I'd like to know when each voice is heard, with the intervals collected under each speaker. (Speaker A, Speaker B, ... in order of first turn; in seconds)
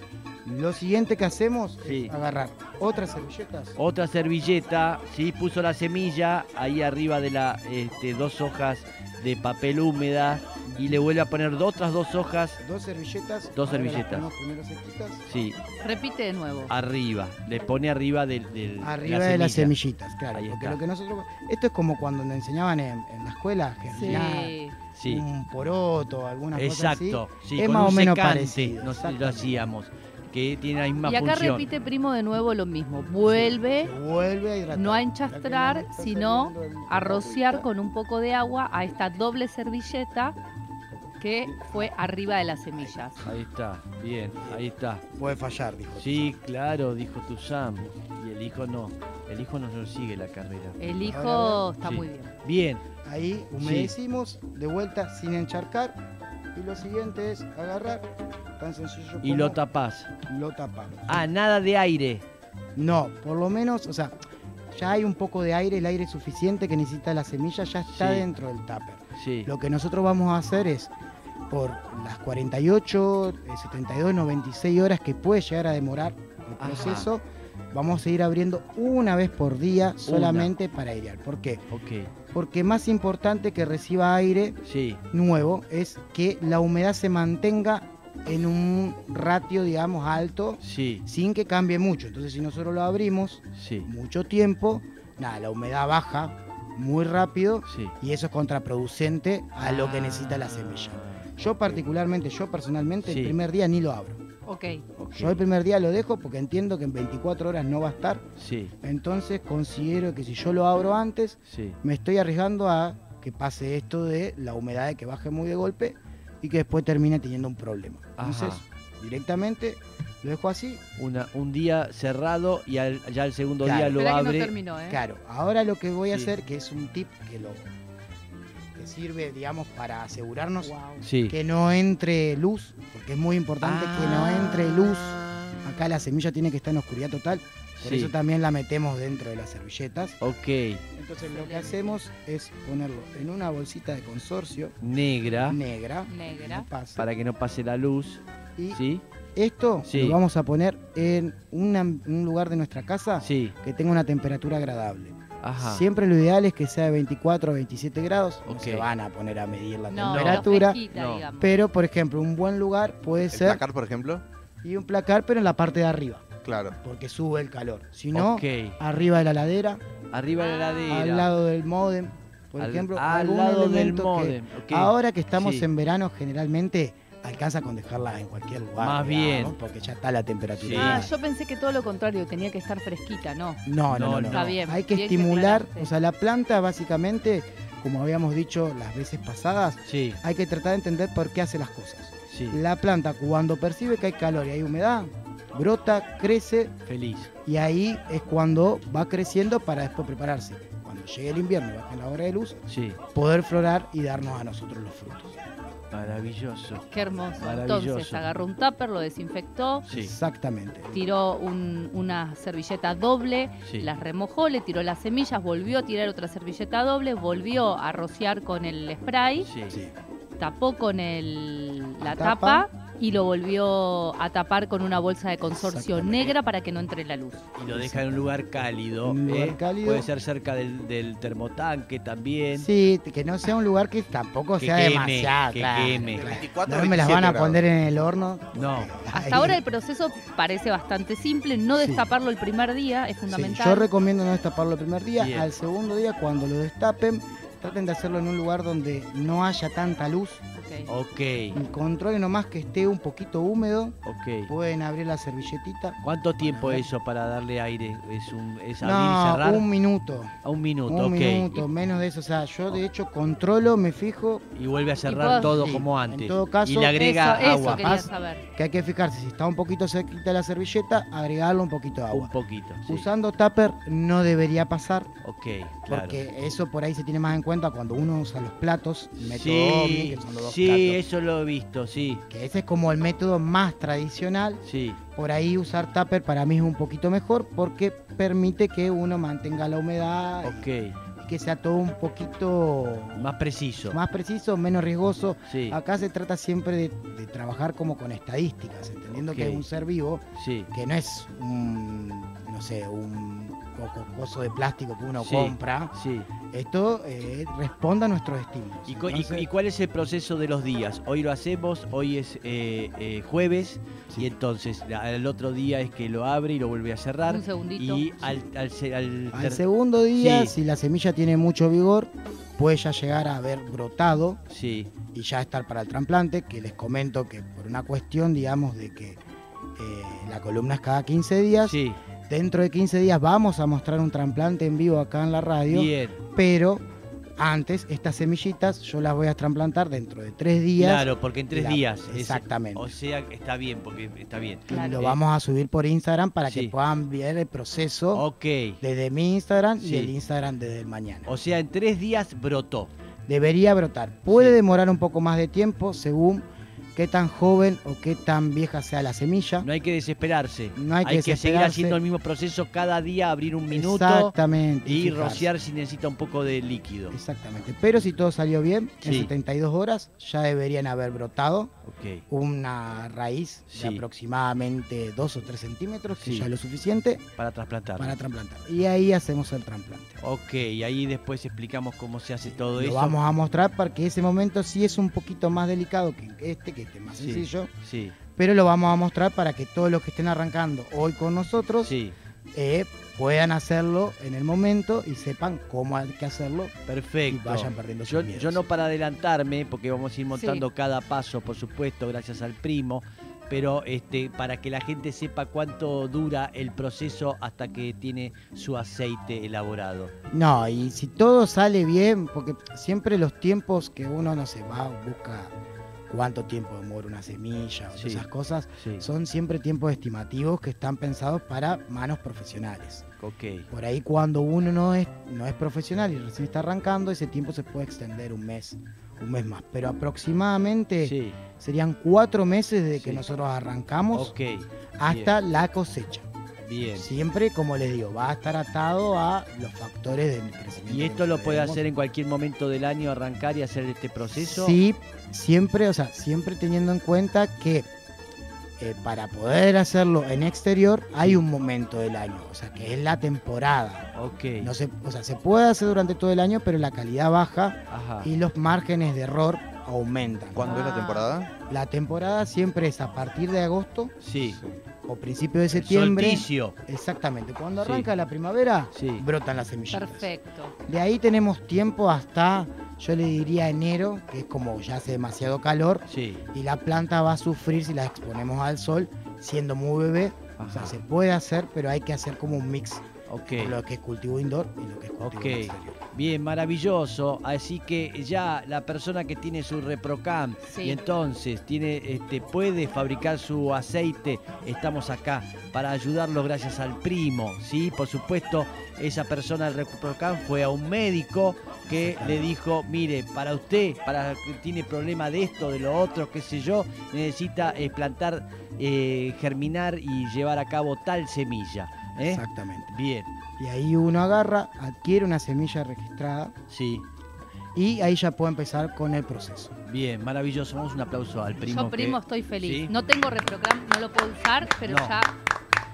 Speaker A: 0.4-3.8, 12.6-15.2, 18.8-29.6, 33.2-37.7, 41.4-42.0, 42.7-43.1, 44.4-46.4, 51.0-51.6, 53.0-56.0, 56.5-58.0, 58.6-59.6, 60.2-61.3, 62.8-64.2, 64.7-70.9, 71.5-81.7, 82.3-84.6, 85.1-104.2, 105.1-108.2, 108.8-120.8, 123.6-124.0, 124.9-127.7, 128.8-140.2, 140.9-144.8, 145.4-147.1, 149.3-160.8, 161.4-163.6, 164.6-169.8, 170.9-181.1, 183.6-196.7, 197.4-202.6, 203.1-205.3, 209.9-211.0, 222.0-222.7, 225.4-226.3, 227.7-228.4, 229.0-230.1, 232.5-239.6, 241.8-242.1, 243.3-250.4, 251.5-256.9, 258.8-260.3, 260.9-264.4, 265.4-272.3, 272.9-275.1, 275.9-281.0, 282.3-284.6, 285.1-290.7, 291.2-293.3, 293.9-305.9, 306.5-309.5, 319.3-324.4, 325.1-329.2, 329.8-336.8, 337.4-342.9, 344.7-348.2, 348.8-351.3, 353.3-359.7, 360.8-362.0, 363.7-365.5, 367.1-371.7, 372.3-377.3, 378.0-380.2, 382.7-387.7, 388.4-391.9, 392.5-396.7, 397.3-398.6, 410.3-415.5, 416.1-423.1, 423.7-434.3, 435.0-436.3, 436.9-441.8, 444.3-447.9, 448.8-454.1, 454.6-460.8, 461.6-464.2, 464.9-470.3, 470.8-486.0, 501.9-502.5, 512.2-512.9, 513.6-516.5, 517.7-519.7
Speaker B: 1.8-2.1, 3.8-12.6, 13.5-14.3, 15.3-15.6, 16.7-19.7, 20.3-20.8, 24.0-24.3, 24.9-25.2, 26.5-31.7, 43.2-45.0, 46.0-51.0, 51.8-52.8, 53.6-53.9, 59.2-60.1, 61.1-62.2, 67.9-68.3, 69.2-69.5, 76.6-77.1, 80.0-80.5, 81.7-82.1, 84.6-85.0, 90.6-91.0, 93.5-93.9, 97.7-97.9, 99.6-101.8, 103.0-103.3, 105.0-105.4, 108.4-108.7, 111.5-111.8, 118.2-118.6, 121.0-124.5, 131.0-131.3, 133.6-134.8, 137.8-138.1, 140.2-140.8, 144.8-145.6, 146.9-149.0, 149.8-150.2, 153.2-153.6, 155.4-155.8, 158.4-158.9, 160.0-161.2, 168.1-168.8, 170.1-171.3, 172.6-175.7, 178.8-179.5, 180.5-181.1, 183.9-184.5, 189.8-190.2, 192.3-192.6, 196.8-197.3, 202.7-203.0, 205.9-206.8, 207.4-208.4, 209.8-210.1, 213.6-213.9, 219.4-219.8, 227.6-232.7, 234.6-236.3, 238.5-238.9, 245.2-245.5, 250.9-251.6, 254.0-254.5, 256.0-259.6, 260.4-261.7, 264.5-267.9, 272.1-273.1, 275.2-276.2, 279.2-282.2, 284.6-285.0, 290.4-290.9, 293.1-294.0, 295.5-295.8, 299.1-299.6, 300.4-300.7, 305.2-306.3, 308.9-319.6, 320.1-320.5, 324.5-324.9, 331.6-332.0, 335.7-336.2, 340.8-345.2, 346.4-346.7, 348.1-348.8, 349.8-350.1, 351.3-352.9, 354.3-354.6, 359.6-364.3, 364.8-367.2, 369.0-369.3, 371.8-372.2, 373.7-374.0, 376.1-376.5, 377.4-378.2, 380.2-383.1, 387.1-388.1, 391.8-392.1, 396.9-410.1, 417.9-418.2, 418.8-419.0, 423.2-423.7, 431.0-431.4, 433.0-433.2, 434.1-435.3, 436.6-437.1, 440.9-444.8, 454.1-454.7, 457.9-458.3, 464.2-464.6, 465.7-466.7, 467.8-468.1, 468.9-469.2, 476.1-476.4, 480.6-481.0, 483.3-483.8, 485.2-513.3, 516.7-517.0, 519.9-522.9, 524.8-525.1
Speaker C: 15.8-16.7, 23.9-24.7, 31.0-33.9, 34.7-40.4, 41.2-43.2, 50.8-52.3, 104.4-104.8, 123.9-125.0, 130.6-131.0, 141.3-141.9, 146.1-146.7, 159.9-161.6, 170.4-171.0, 180.7-183.6, 184.3-185.9, 206.9-209.8, 210.9-219.5, 220.4-227.5, 239.1-243.9, 250.5-250.9, 265.0-265.6, 266.9-268.4, 317.3-318.1, 344.7-345.0, 400.3-400.6, 460.6-461.3, 469.9-470.7, 490.6-491.0, 521.6-525.3
Speaker D: 163.3-164.2, 166.4-166.8, 236.2-237.6, 460.5-461.5